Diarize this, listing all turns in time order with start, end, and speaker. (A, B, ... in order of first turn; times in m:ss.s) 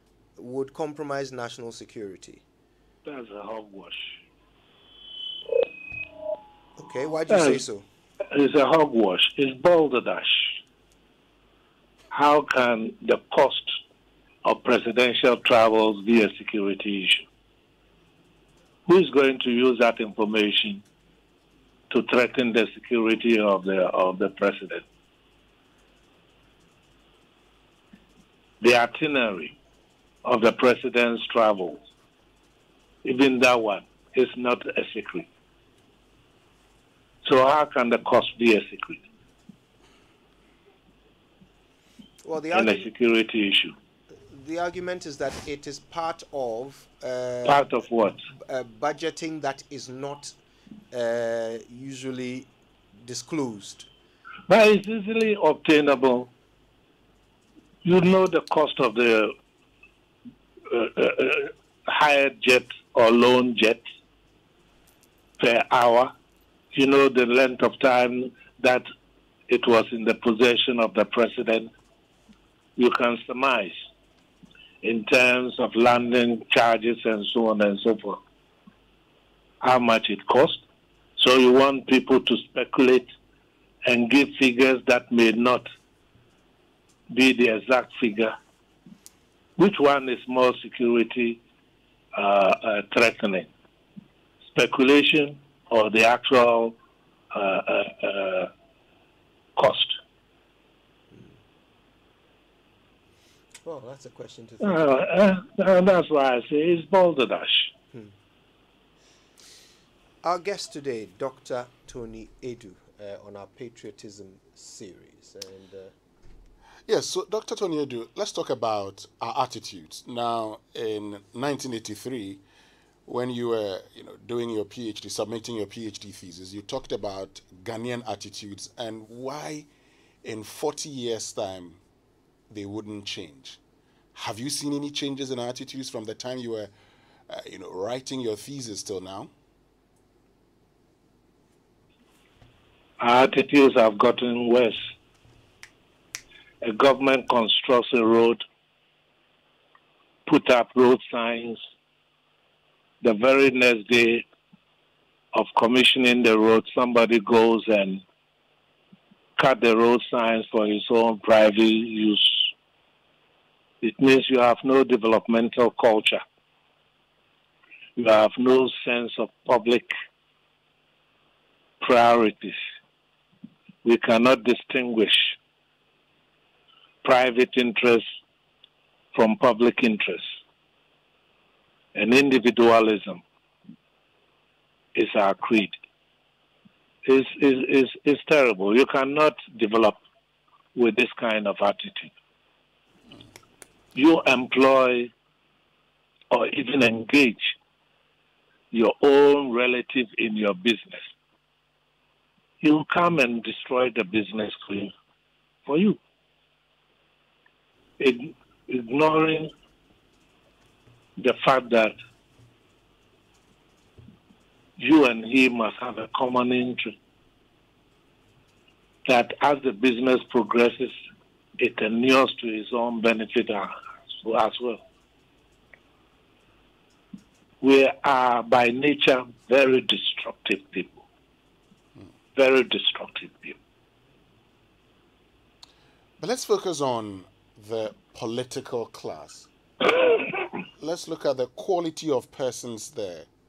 0:00.4-0:02.4 A
0:03.0-0:04.1 B
0:06.8-0:07.8 A
0:07.3-0:07.6 B
0:08.3-0:10.5 B
0:12.1-0:13.8 B
0:14.4-0:17.2 B
0:18.9-0:20.8 B
0:21.9-0:24.8 B
0:28.6-0:29.6 B
0:30.2-0:31.8 B
0:33.0-0:35.3 B
0:37.2-0:39.0 B
0:42.2-0:42.9 A
0:42.5-0:43.7 B
0:44.3-0:47.6 A
0:47.4-0:48.2 B
0:48.3-0:50.3 A
0:50.9-0:53.9 A
0:54.5-0:56.3 B
0:57.8-0:59.3 B
1:00.7-1:03.8 B
1:05.4-1:06.1 B
1:06.7-1:08.8 B
1:09.5-1:11.7 B
1:12.8-1:13.8 B
1:14.8-1:18.2 B
1:19.6-1:20.6 B
1:21.2-1:23.1 B
1:23.8-1:25.6 B
1:27.1-1:28.4 B
1:29.6-1:31.4 B
1:32.1-1:33.5 B
1:34.5-1:36.8 B
1:37.3-1:38.5 B
1:39.6-1:40.0 B
1:43.6-1:45.0 A
1:44.6-1:47.7 B
1:50.2-1:55.9 A
1:56.9-2:02.4 C
2:03.1-2:09.7 C
2:10.2-2:11.8 C
2:12.5-2:13.6 C
2:14.1-2:16.7 C
2:17.3-2:19.3 C
2:23.0-2:24.8 B
2:26.6-2:28.4 B
2:30.3-2:31.6 B
2:33.0-2:34.2 B
2:35.3-2:38.0 B
2:39.4-2:42.5 B
2:43.8-2:46.2 B
2:48.0-2:49.9 B
2:51.8-2:52.6 B
2:53.8-2:55.4 B
2:57.0-2:58.0 B
2:59.1-3:00.3 B
3:02.0-3:03.2 B
3:05.0-3:05.8 B
3:07.1-3:10.0 B
3:10.8-3:12.1 B
3:14.0-3:15.1 B
3:16.3-3:17.5 B
3:18.7-3:21.1 B
3:22.6-3:24.9 B
3:25.7-3:26.0 B
3:28.0-3:29.5 B
3:31.2-3:32.0 B
3:34.8-3:36.9 B
3:39.1-3:40.9 B
3:41.6-3:44.8 B
3:47.6-3:51.0 B
3:52.4-3:53.6 B
3:56.2-3:59.5 C
4:00.8-4:03.3 C